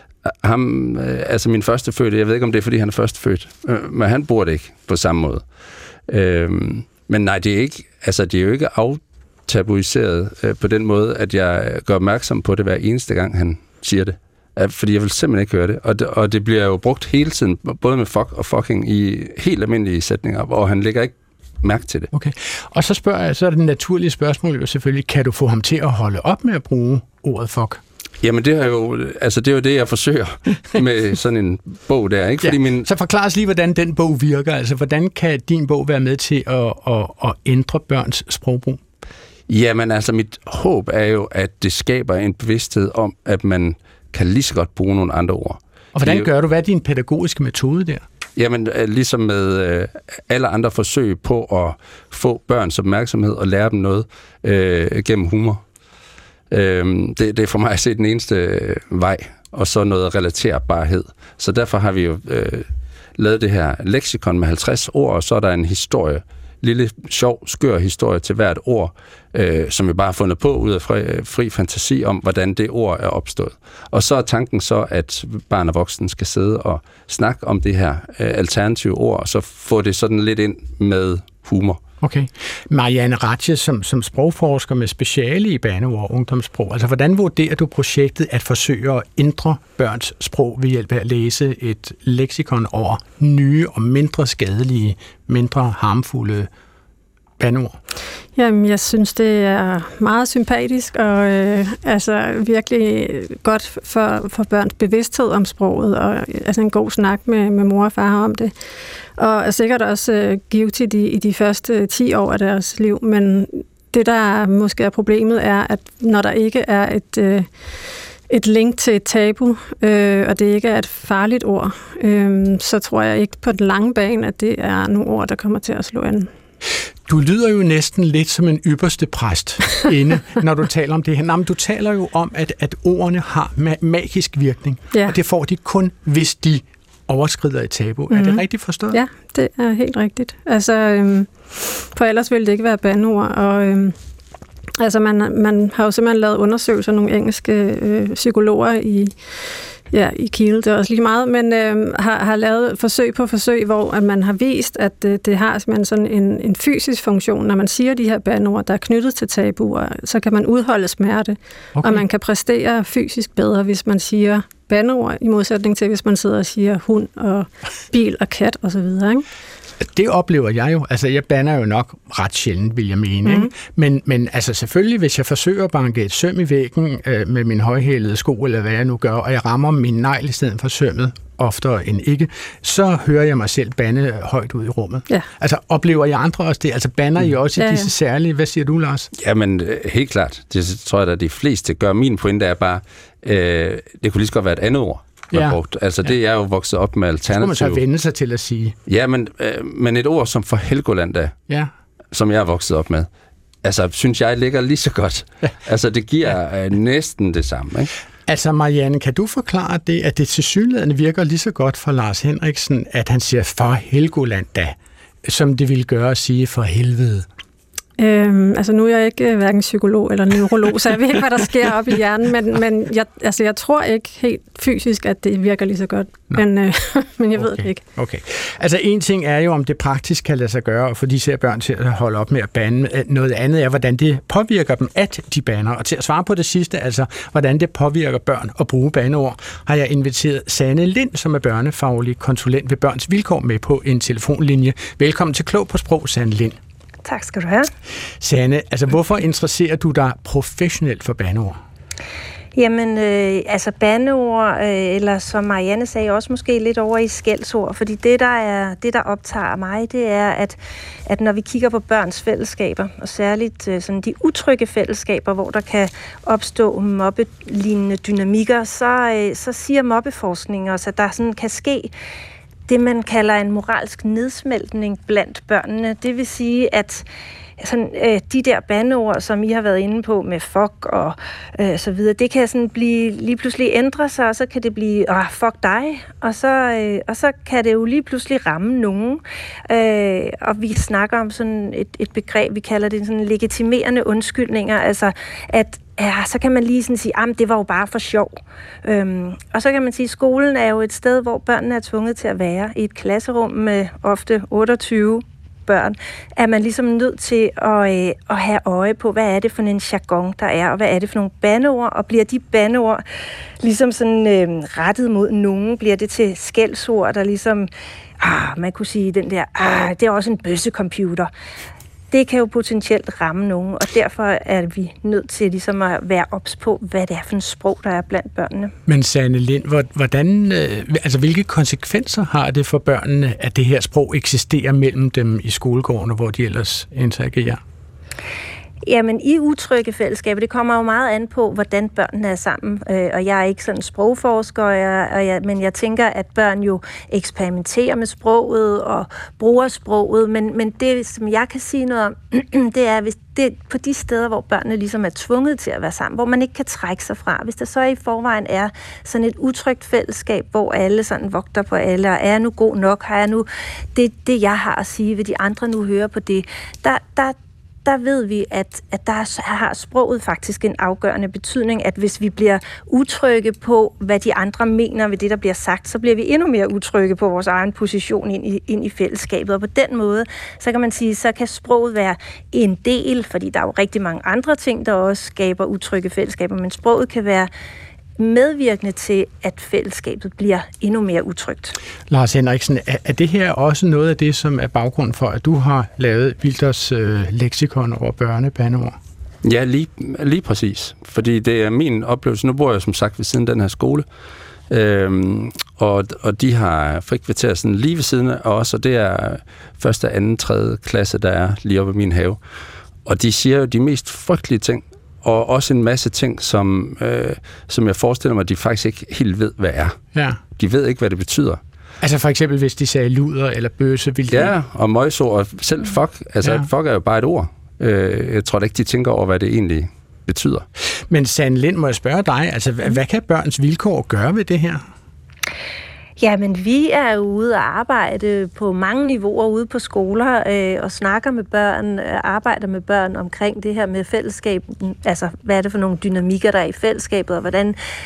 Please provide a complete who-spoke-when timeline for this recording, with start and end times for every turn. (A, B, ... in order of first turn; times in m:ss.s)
0:00.3-0:05.4 A
0:06.1-0:22.1 A
0:22.1-0:27.8 B
0:28.2-0:32.9 A
0:32.4-0:38.8 B
0:39.5-0:46.3 A
0:46.0-0:48.0 B
0:48.4-0:55.6 A
0:56.5-1:21.8 A
1:22.0-1:36.5 B
1:37.4-1:37.8 B
1:38.4-1:48.5 C
1:49.2-1:57.5 C
1:58.3-2:06.3 C
2:07.1-2:19.0 B
2:18.1-2:24.0 C
2:24.8-2:29.2 C
2:29.9-2:49.2 C
2:41.8-2:42.0 B
2:49.8-3:09.1 B
2:53.2-2:53.5 C
3:07.6-3:07.9 C
3:09.2-3:17.8 A
3:17.3-3:18.8 B
3:18.9-3:21.4 A
3:22.1-3:23.1 A
3:23.6-3:27.9 A
3:28.3-3:37.3 B
3:38.0-3:47.8 C
3:47.4-4:06.6 B
4:07.0-4:07.7 D
4:08.2-4:11.6 B
4:12.6-4:31.9 D
4:32.7-4:37.0 D
4:37.6-4:58.3 D
4:58.8-5:13.0 D
5:13.6-5:21.3 D
5:22.1-5:28.7 D
5:28.9-5:37.6 B
5:38.8-6:27.5 D
6:28.2-6:31.8 D
6:32.1-6:39.0 B
6:39.4-6:44.0 A
6:44.7-6:52.4 A
6:53.0-7:00.0 A
7:00.6-7:01.6 A
7:02.0-7:04.5 B
7:04.3-7:10.6 A
7:06.4-7:06.7 B
7:11.1-7:14.8 B
7:16.2-7:27.8 D